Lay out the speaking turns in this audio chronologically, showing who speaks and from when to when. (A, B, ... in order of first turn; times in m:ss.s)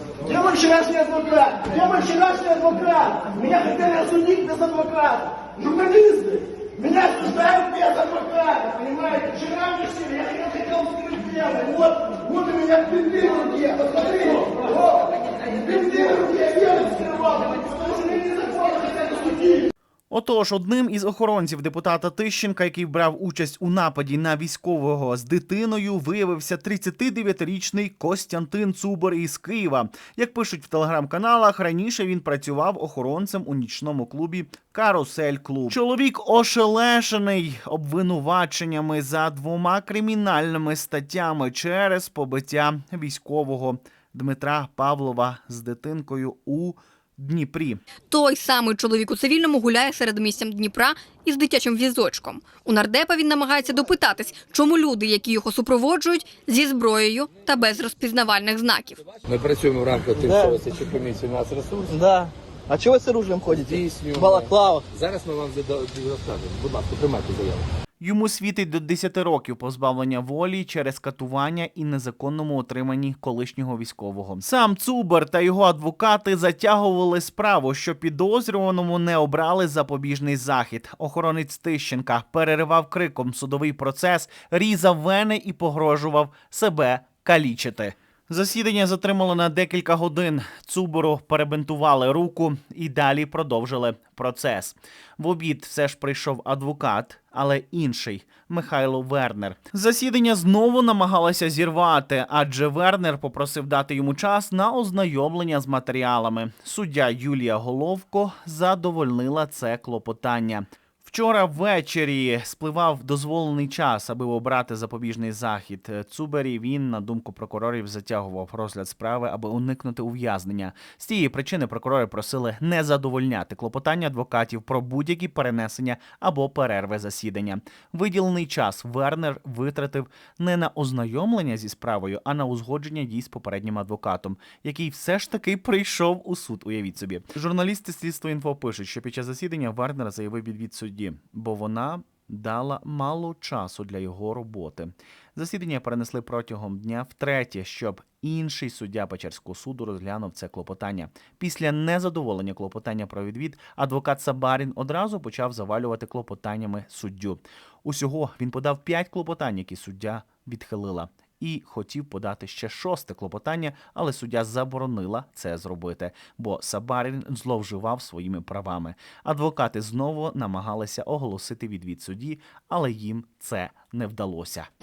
0:00.3-0:19.7 A
0:20.1-0:47.8 B
0:48.1-0:59.0 C
0:59.2-1:02.1 D
1:00.3-1:00.6 E
1:01.9-1:04.7 E
1:03.5-1:07.7 D
1:08.0-2:54.7 B